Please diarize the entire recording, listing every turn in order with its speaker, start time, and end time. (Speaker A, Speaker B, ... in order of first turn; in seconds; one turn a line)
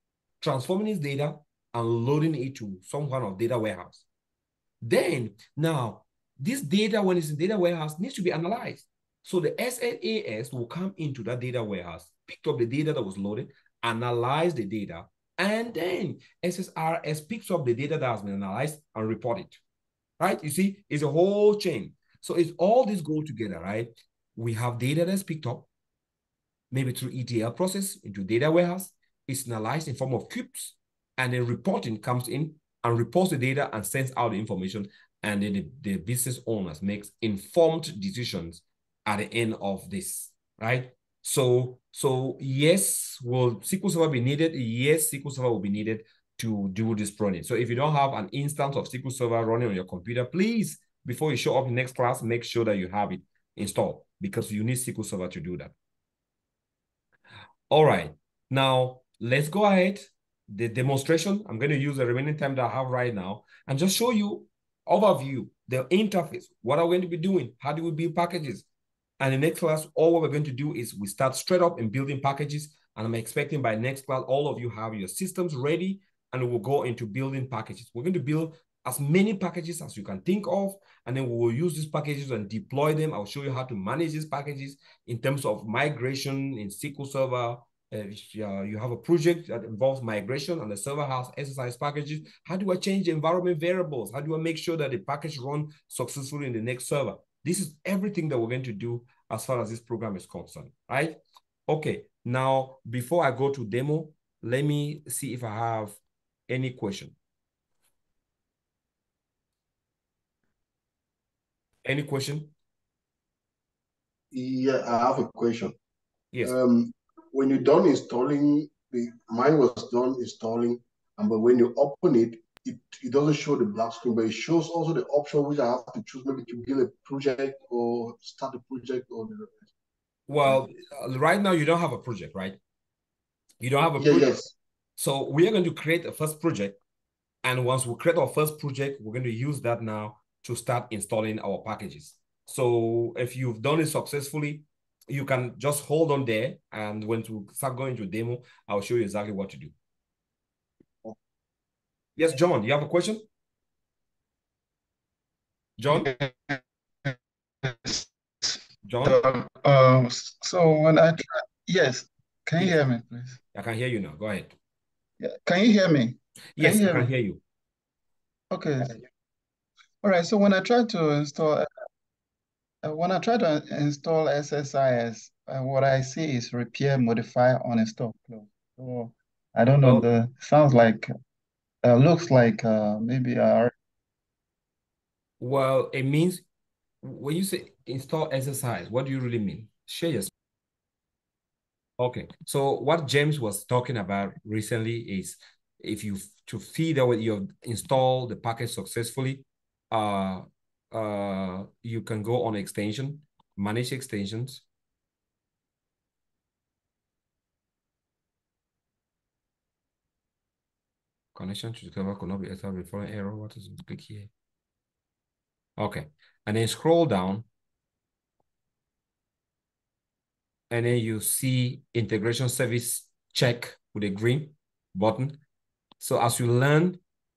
Speaker A: 0.4-4.0
Speaker A: 4.8-19.6
Speaker A: 20.2-25.7
Speaker A: 26.7-55.7
Speaker A: 57.7-68.7
Speaker A: 69.2-107.1
Speaker A: 111.8-112.5
Speaker B: 114.3-115.7
Speaker B: 116.4-129.7
Speaker A: 130.3-132.6
Speaker A: 133.6-134.3
Speaker B: 134.0-134.5
Speaker A: 135.0-136.8
Speaker A: 137.4-149.7
Speaker A: 152.2-153.2
Speaker A: 155.8-156.1
Speaker C: 155.9-156.6
Speaker C: 157.6-158.0
Speaker A: 158.8-159.2
Speaker C: 159.0-163.4
Speaker A: 163.5-164.5
Speaker C: 165.2-167.1
Speaker A: 166.6-167.4
Speaker C: 168.5-169.0
Speaker C: 170.0-171.7
Speaker C: 172.8-181.1
Speaker C: 181.8-183.7
Speaker A: 185.4-186.4
Speaker A: 187.0-190.3
Speaker A: 192.0-204.6
Speaker A: 211.3-214.3
Speaker A: 215.8-217.4
Speaker A: 220.7-225.4
Speaker A: 226.0-227.0